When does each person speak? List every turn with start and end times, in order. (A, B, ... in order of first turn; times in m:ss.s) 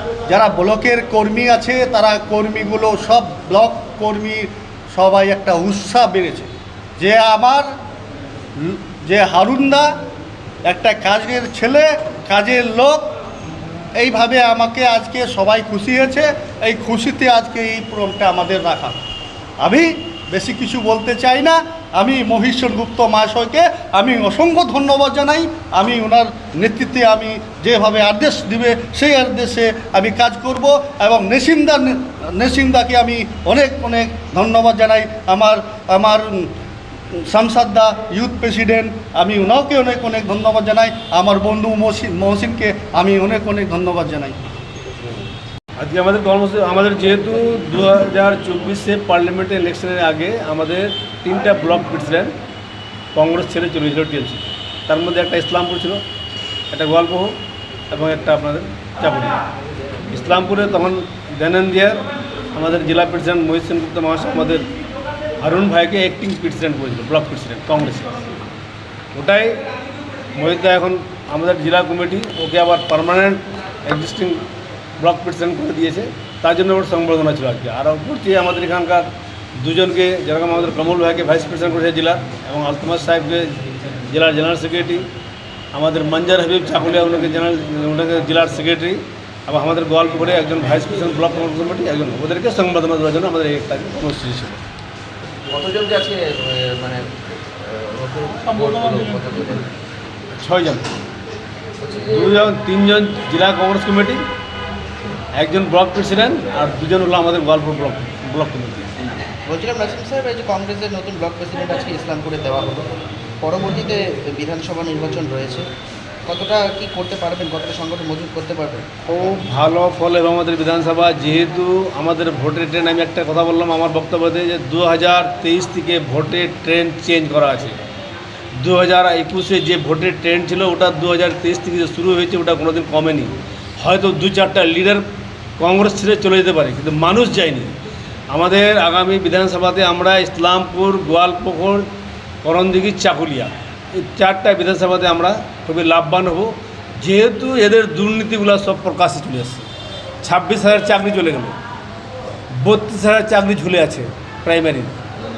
0:00.3-0:07.7 A
0:08.6-0:09.9 A
0:10.7-0:13.1 A
0:14.0-0:18.9 A
0:19.6-0:36.5 A
0:37.2-0:44.4 A
0:45.8-0:52.4 B
0:53.1-0:56.0 B
0:56.7-0:57.4 B
0:57.9-0:59.4 B
1:00.1-1:04.6 B
1:05.4-1:08.2 B
1:09.1-1:09.6 B
1:10.3-1:14.4 B
1:15.0-1:25.1 B
1:25.7-1:34.6 B
1:35.5-1:37.0 C
1:37.9-1:39.7 C
1:40.4-1:40.8 B
1:41.8-1:42.3 C
1:42.0-1:44.2 B
1:45.4-1:48.9 B
1:49.4-1:55.7 C
1:56.2-1:58.9 C
1:59.1-2:07.8 B
2:08.6-2:15.0 B
2:15.6-2:17.8 B
2:18.3-2:21.9 B
2:22.4-2:29.7 B
2:30.2-2:31.6 B
2:32.5-2:34.9 B